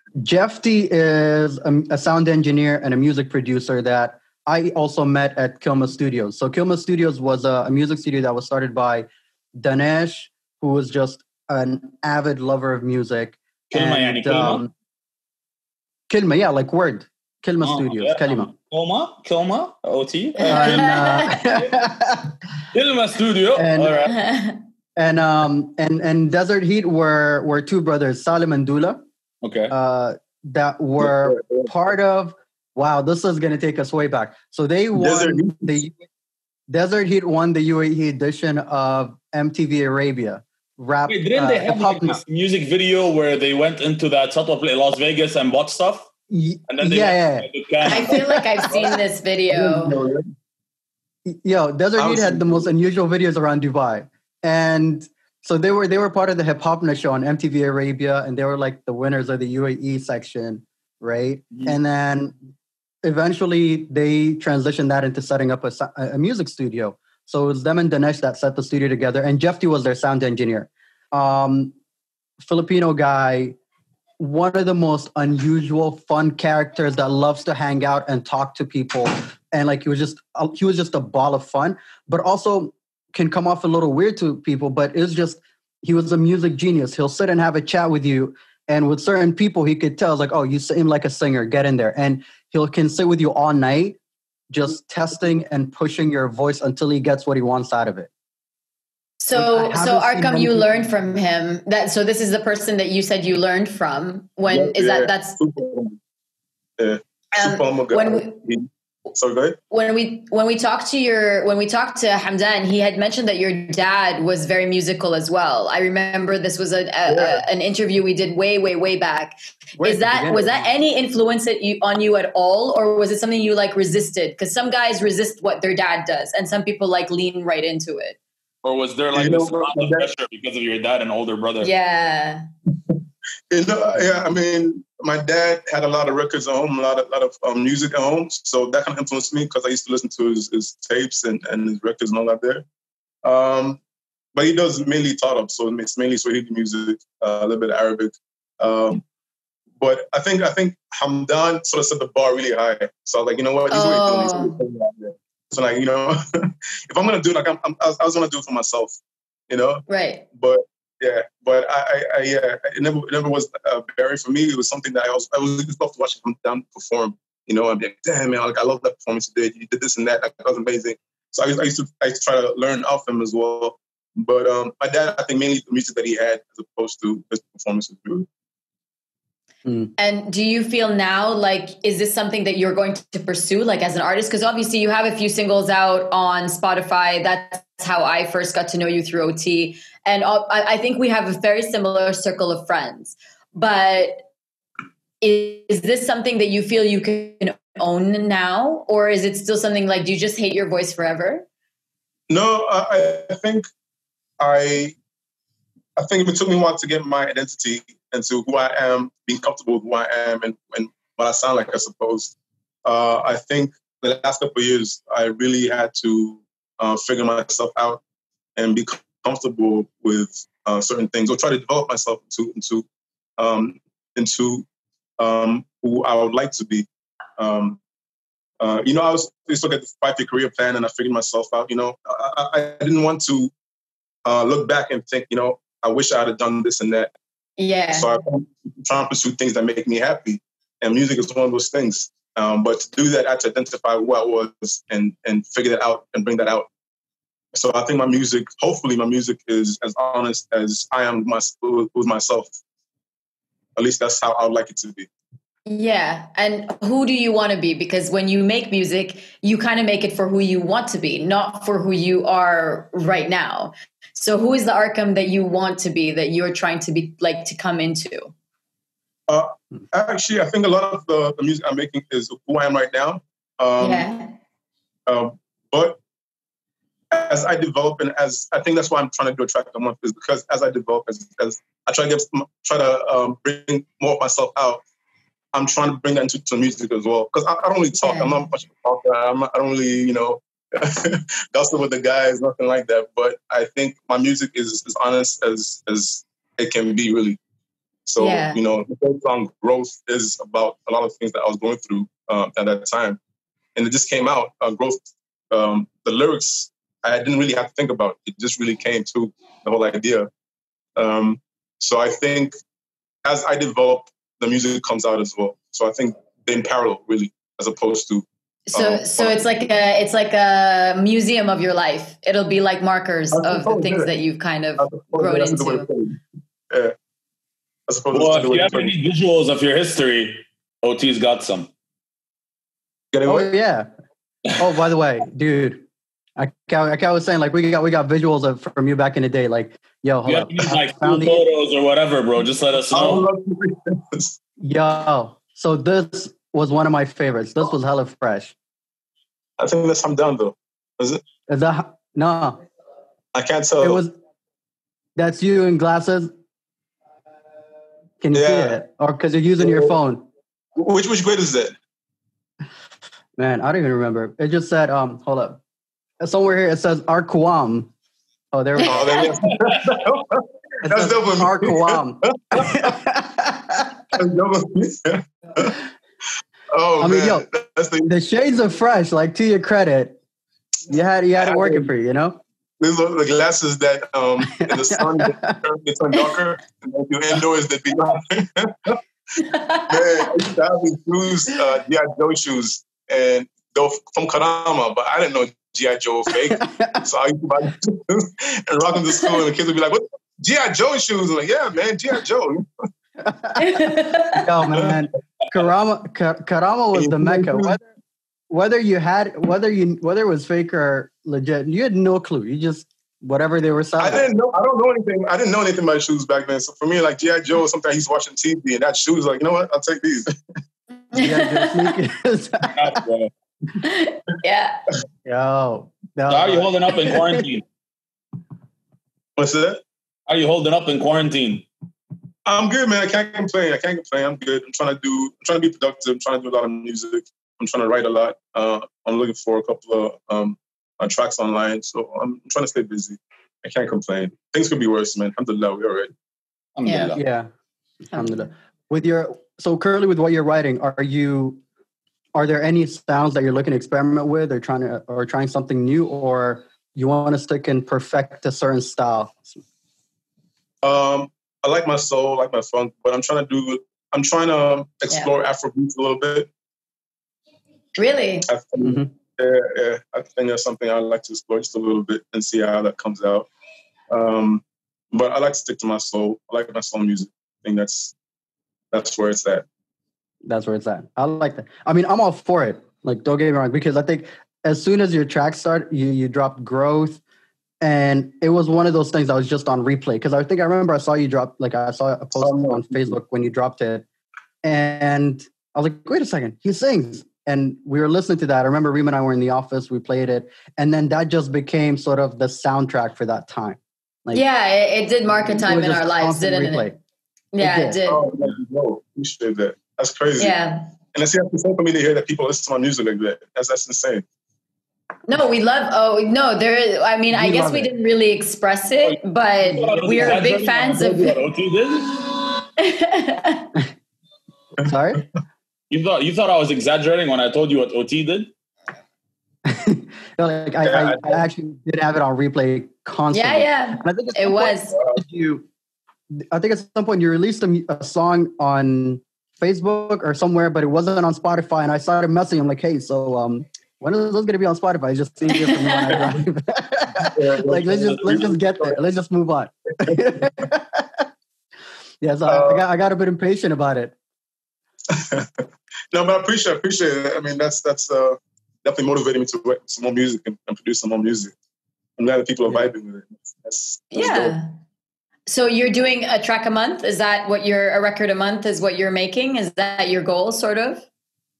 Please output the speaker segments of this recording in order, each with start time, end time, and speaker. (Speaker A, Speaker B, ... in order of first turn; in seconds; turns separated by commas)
Speaker A: 0.2-14.7, Speaker B: 13.7-14.6, Speaker A: 16.1-18.5, Speaker B: 17.6-21.6, Speaker C: 20.4-21.4, Speaker A: 20.5-22.3, Speaker B: 22.7-24.2, Speaker A: 23.6-24.0, Speaker C: 24.1-24.6, Speaker A: 25.0-29.0, Speaker B: 29.4-29.7, Speaker A: 29.7-36.0, Speaker D: 31.0-31.7, Speaker D: 35.0-35.8, Speaker A: 36.7-42.2, Speaker B: 41.1-46.1, Speaker A: 46.3-48.8, Speaker B: 46.7-48.2, Speaker C: 47.9-49.9, Speaker D: 49.5-50.2, Speaker A: 51.3-62.3, Speaker B: 52.1-52.7, Speaker A: 63.0-71.7, Speaker A: 72.4-73.5, Speaker A: 74.2-94.0, Speaker A: 94.5-98.1, Speaker C: 99.2-105.4, Speaker A: 99.3-101.0, Speaker D: 104.5-106.0, Speaker D: 106.8-109.6, Speaker C: 107.4-108.4, Speaker C: 109.7-128.2, Speaker D: 117.1-117.4, Speaker A: 119.8-120.7, Speaker B: 128.6-131.7, Speaker D: 129.1-130.1, Speaker C: 131.6-132.4, Speaker D: 133.5-142.6, Speaker D: 143.2-143.8, Speaker D: 144.3-149.0, Speaker D: 149.8-159.0, Speaker C: 153.7-154.5, Speaker D: 159.5-178.3, Speaker C: 159.9-160.2, Speaker A: 179.7-179.9, Speaker C: 180.0-194.2, Speaker C: 195.2-201.5, Speaker D: 202.3-203.7, Speaker D: 204.4-204.9, Speaker D: 206.0-212.3, Speaker D: 212.8-218.0, Speaker D: 218.6-222.8, Speaker D: 223.4-224.7, Speaker D: 225.2-226.9, Speaker D: 227.4-227.8, Speaker D: 228.6-233.5, Speaker D: 234.2-237.1, Speaker C: 237.6-238.1, Speaker D: 237.9-246.7, Speaker D: 247.5-252.6, Speaker D: 253.8-255.1, Speaker C: 255.7-268.3, Speaker D: 269.3-274.1, Speaker C: 273.8-274.3, Speaker D: 275.1-276.0, Speaker D: 277.1-284.8, Speaker D: 285.5-297.4, Speaker C: 288.0-288.4, Speaker D: 298.1-303.2, Speaker C: 298.2-298.6, Speaker D: 303.8-310.3, Speaker D: 311.0-312.5, Speaker D: 313.2-319.4, Speaker C: 318.7-325.9, Speaker D: 323.3-324.1, Speaker D: 324.8-326.2, Speaker D: 327.9-328.9, Speaker B: 328.1-331.7, Speaker D: 333.1-333.5, Speaker A: 333.2-333.9, Speaker A: 334.6-335.9, Speaker A: 336.4-341.4, Speaker B: 340.3-343.3, Speaker D: 342.9-344.4, Speaker A: 344.6-348.5, Speaker D: 349.6-351.2, Speaker A: 351.5-352.6, Speaker D: 353.3-354.0, Speaker A: 353.8-354.1, Speaker A: 355.2-356.3, Speaker A: 358.2-360.3, Speaker D: 358.3-358.8, Speaker D: 359.6-359.9, Speaker D: 360.8-361.8, Speaker A: 363.4-365.6, Speaker A: 366.2-367.9, Speaker A: 368.5-369.3, Speaker C: 368.8-369.2, Speaker D: 368.8-372.9, Speaker A: 370.8-373.9, Speaker D: 374.1-375.8, Speaker D: 376.7-378.1, Speaker A: 377.0-377.5, Speaker A: 378.1-380.2, Speaker A: 380.9-382.4, Speaker D: 381.4-381.9, Speaker D: 382.8-389.0, Speaker A: 384.6-385.6, Speaker C: 389.4-390.2, Speaker D: 389.9-402.7, Speaker A: 396.6-397.0, Speaker A: 403.2-403.6, Speaker C: 403.6-404.4, Speaker A: 404.3-407.9, Speaker D: 404.7-405.0, Speaker D: 406.9-407.8, Speaker A: 408.5-414.3, Speaker D: 414.0-420.3, Speaker C: 421.1-421.9, Speaker A: 421.1-423.0, Speaker B: 422.7-423.3, Speaker C: 423.8-424.8, Speaker A: 425.2-427.4, Speaker B: 426.3-427.6, Speaker D: 429.4-429.8, Speaker B: 430.3-431.7, Speaker D: 432.4-446.1, Speaker B: 446.8-447.2, Speaker C: 446.9-447.2, Speaker A: 447.1-447.5, Speaker A: 448.1-451.6, Speaker A: 452.4-459.6, Speaker D: 460.8-466.5, Speaker C: 468.0-468.5, Speaker D: 468.5-473.5, Speaker A: 468.8-469.1, Speaker D: 474.1-478.1, Speaker D: 478.9-479.6, Speaker A: 480.4-487.2, Speaker A: 487.8-494.1, Speaker D: 492.4-493.1, Speaker A: 494.6-504.4, Speaker C: 504.3-506.9, Speaker A: 505.4-507.0, Speaker C: 507.5-508.2, Speaker A: 507.6-508.0, Speaker D: 508.1-510.6, Speaker C: 510.4-510.9, Speaker D: 511.1-514.2, Speaker C: 515.3-521.4, Speaker A: 517.3-517.9, Speaker B: 519.0-522.4, Speaker A: 520.1-520.5, Speaker C: 522.8-523.7, Speaker A: 524.8-525.2, Speaker B: 525.9-528.5, Speaker A: 529.7-535.6, Speaker D: 530.8-531.4, Speaker C: 533.3-534.9, Speaker A: 536.3-551.3, Speaker C: 545.5-546.2, Speaker D: 547.2-549.0, Speaker A: 552.2-554.1, Speaker D: 552.5-552.8, Speaker D: 555.1-561.5, Speaker D: 562.2-564.5, Speaker C: 564.1-564.7, Speaker C: 565.5-571.0